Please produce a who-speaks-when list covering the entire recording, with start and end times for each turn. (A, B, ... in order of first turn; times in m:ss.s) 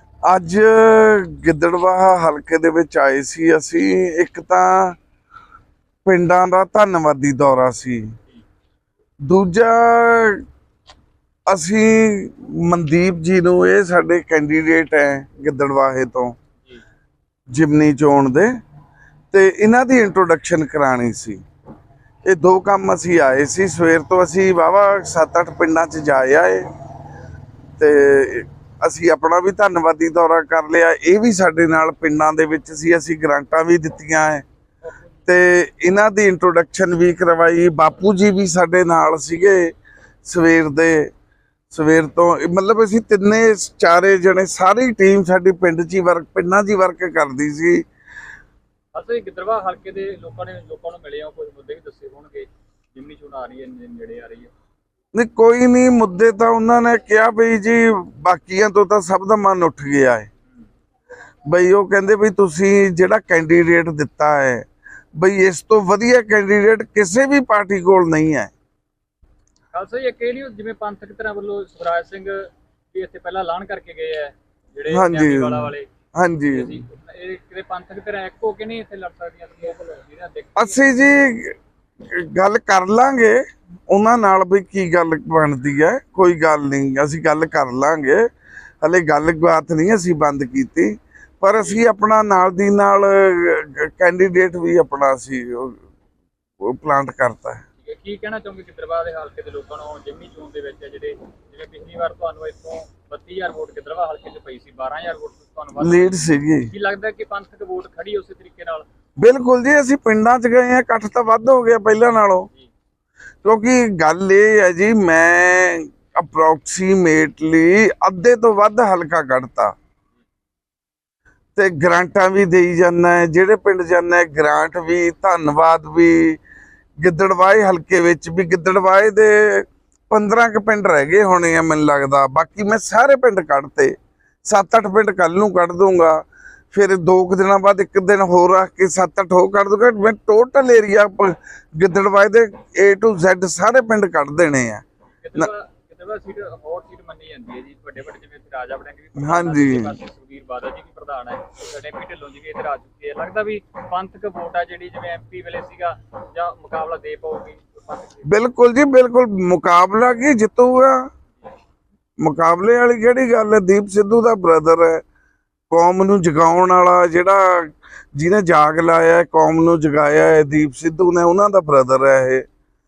0:00.3-0:05.0 A
0:06.0-0:08.2 A
0:09.2-0:10.4 A
0:11.5-0:16.3 A
0:17.5-0:18.5 A
0:19.3-0:21.4 A
0:22.2-0:26.7 A
0:27.8-0:34.4 A
0:35.3-0:39.7 A
0:40.2-0:41.1 A
0:41.7-0:47.8 A
0:48.9-0:54.5 B
0:55.1-1:00.3 A
1:01.5-1:04.6 A
1:05.2-1:08.5 A
1:09.7-1:15.8 B
1:14.9-1:16.7 A
1:16.5-1:20.9 B
1:20.6-1:28.2 A
1:28.8-1:35.8 A
1:36.6-1:37.6 A
1:37.8-1:48.8 B
1:45.8-1:46.7 A
1:49.2-1:52.5 A
1:53.4-1:59.7 A
2:01.6-2:06.4 A
2:07.0-2:13.9 A
2:14.4-2:24.8 A
2:25.2-2:38.4 B
2:29.2-2:29.9 A
2:38.2-2:41.0 A
2:42.2-2:45.0 A
2:45.7-2:52.4 A